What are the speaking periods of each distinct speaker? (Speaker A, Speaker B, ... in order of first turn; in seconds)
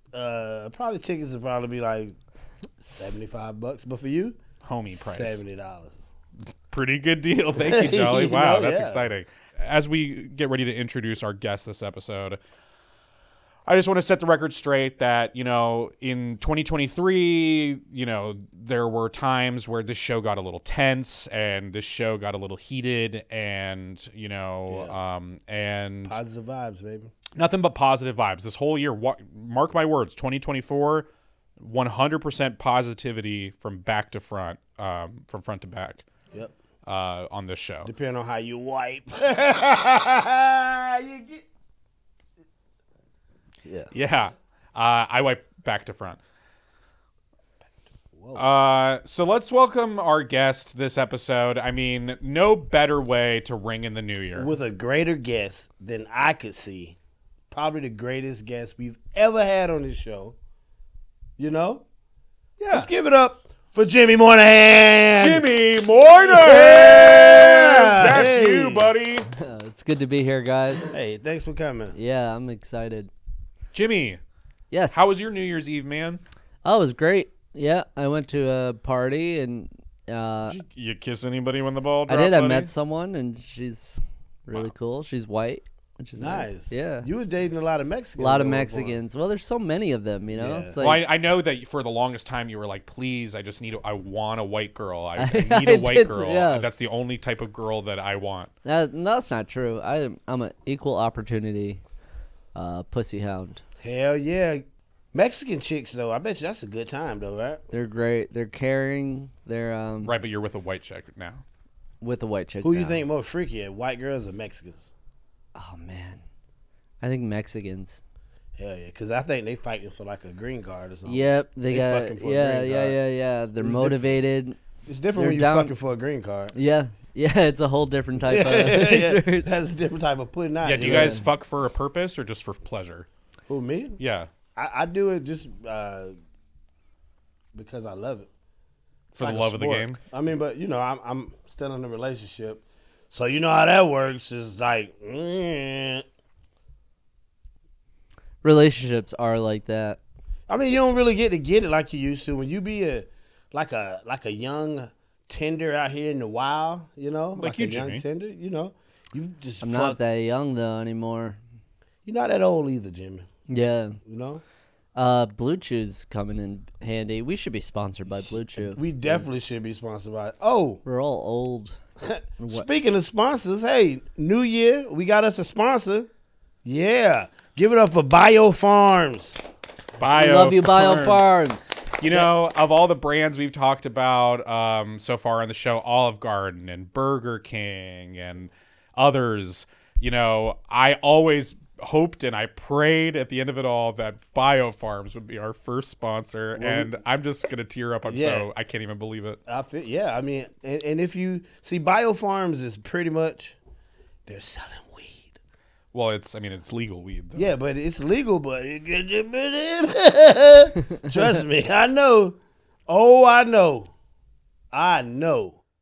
Speaker A: 0.1-2.1, 2.8-4.3, 4.9-6.0, 7.6-9.1, 24.7-24.9, 26.1-27.1, 37.8-41.4, 43.6-43.9, 48.1-48.4, 54.4-57.0, 57.5-60.3, 61.4-61.8, 62.7-65.5, 66.2-68.9, 70.9-72.0, 86.2-89.0, 90.3-90.8, 103.8-107.6, 112.6-114.9, 118.6-123.0, 123.6-124.2, 124.8-126.5, 128.2-131.2, 133.5-134.0, 134.5-136.2, 137.5-138.3, 139.2-146.0, 150.5-160.0, 162.0-163.3, 164.0-164.4, 168.6-170.8, 172.0-176.1, 176.7-179.4, 196.6-197.0, 198.0-198.5, 199.5-203.6, 204.3-205.3, 207.3-212.4, 212.9-213.9, 214.7-215.6
Speaker B: 4.6-5.4, 6.7-12.4, 13.7-26.2, 27.3-36.0, 36.8-37.9, 43.9-46.2, 48.3-54.5, 62.6-62.9, 65.2-69.3, 73.7-74.2, 74.9-76.2, 80.5-82.7, 90.8-98.5, 110.0-111.4, 130.6-133.1, 134.0-134.3, 139.1-140.0, 157.3-158.0, 180.0-181.2, 182.0-199.4, 205.9-207.5
Speaker C: 69.3-70.9, 71.9-73.1, 74.7-75.1, 76.6-80.6, 82.1-87.1, 88.2-91.0, 95.2-96.7, 98.7-101.8, 102.5-103.6, 107.7-110.1, 112.0-113.0, 115.5-116.2, 117.0-118.0, 121.0-124.6, 125.2-125.7, 126.5-129.6, 130.8-131.2, 148.4-150.0, 159.6-161.4, 163.5-164.0, 164.9-169.2, 170.8-171.8, 172.4-172.7, 180.1-181.8